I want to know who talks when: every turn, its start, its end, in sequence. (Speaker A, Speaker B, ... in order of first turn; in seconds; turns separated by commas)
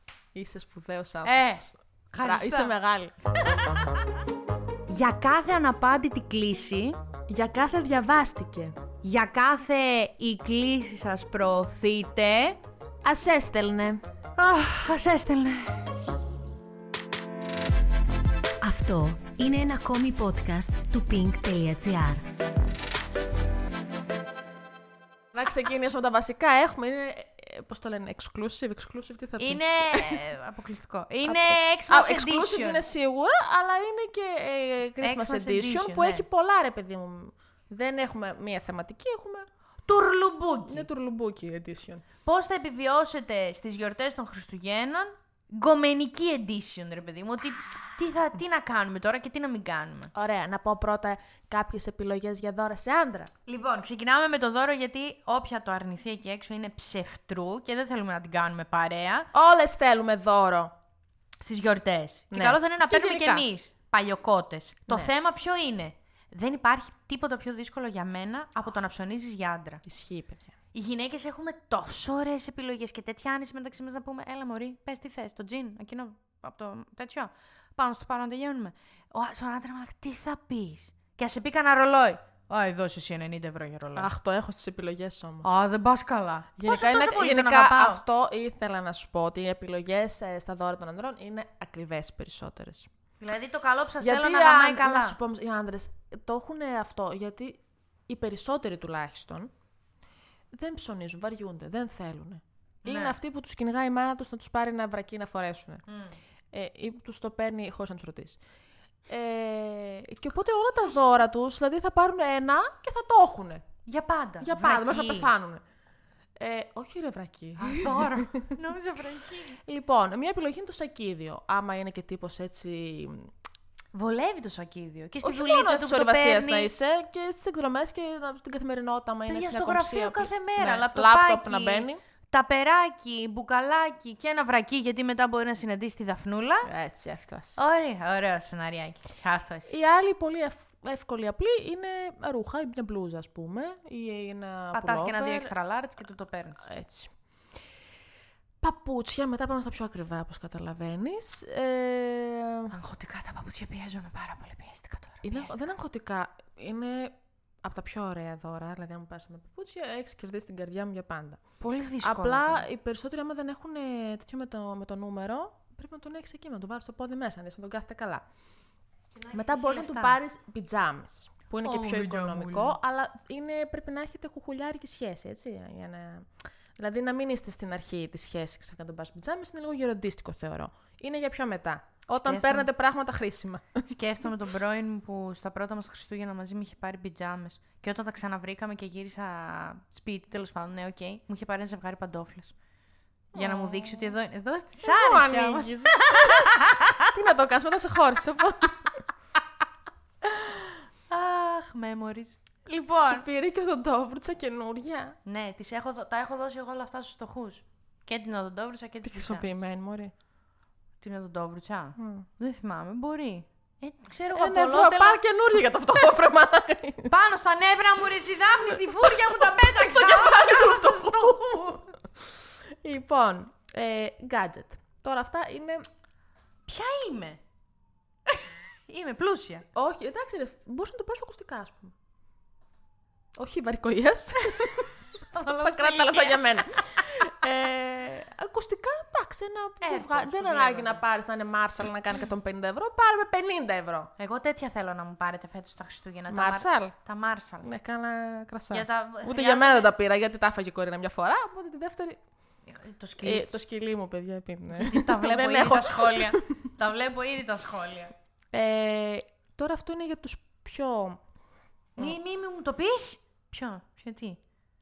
Speaker A: 0.3-3.1, Speaker B: 1.2-2.7, Speaker B: 4.9-7.0, Speaker A: 7.3-8.8, Speaker B: 9.0-12.6, Speaker A: 13.0-14.0, Speaker B: 14.4-15.9, Speaker C: 18.6-22.2, Speaker A: 25.3-30.2, Speaker B: 29.4-32.8, Speaker A: 31.2-39.5, Speaker B: 35.0-36.2, Speaker B: 39.9-40.9, Speaker A: 40.7-42.0, Speaker B: 42.2-50.1, Speaker A: 50.1-53.3, Speaker B: 53.5-59.3, Speaker A: 59.3-60.7, Speaker B: 61.4-69.8, Speaker A: 62.3-63.5, Speaker A: 69.8-70.4, Speaker B: 70.7-84.1, Speaker A: 83.9-85.5, Speaker B: 85.4-88.0, Speaker A: 86.6-92.9, Speaker B: 93.2-95.2, Speaker A: 94.0-99.5, Speaker A: 100.5-105.8, Speaker B: 102.8-103.2, Speaker B: 105.9-106.2, Speaker A: 106.5-108.4, Speaker A: 109.1-113.6, Speaker B: 113.8-115.3, Speaker A: 114.4-115.6, Speaker A: 116.4-118.5, Speaker B: 117.6-119.6, Speaker A: 119.5-123.3, Speaker B: 123.9-126.7, Speaker A: 125.2-132.0, Speaker B: 129.3-136.7, Speaker A: 136.6-137.6, Speaker B: 137.6-139.8, Speaker A: 139.7-145.5, Speaker B: 144.7-146.7, Speaker A: 146.6-147.1, Speaker A: 148.6-152.7, Speaker B: 152.7-155.6, Speaker A: 155.2-161.4, Speaker B: 161.6-162.7, Speaker A: 162.0-168.2, Speaker B: 169.1-170.2, Speaker A: 169.3-183.9, Speaker B: 171.6-172.8, Speaker B: 182.1-182.7, Speaker B: 183.8-192.5, Speaker A: 193.3-194.2, Speaker B: 193.3-197.1, Speaker A: 194.8-199.0, Speaker B: 200.3-203.2, Speaker A: 203.0-205.2, Speaker B: 205.2-209.5, Speaker A: 209.0-210.1, Speaker B: 211.0-215.2, Speaker A: 212.0-212.3, Speaker A: 214.3-217.1, Speaker B: 217.1-221.9, Speaker A: 219.0-221.9, Speaker A: 222.8-225.8, Speaker B: 226.7-227.4, Speaker B: 228.3-229.7, Speaker A: 229.7-231.9, Speaker A: 233.4-244.1, Speaker B: 235.3-236.6, Speaker B: 239.8-241.0, Speaker B: 244.2-247.7, Speaker A: 246.3-246.9, Speaker A: 247.6-252.2, Speaker B: 248.7-249.9, Speaker B: 252.7-253.6, Speaker A: 253.2-256.5, Speaker B: 254.7-258.1, Speaker A: 258.5-261.2, Speaker B: 261.9-264.4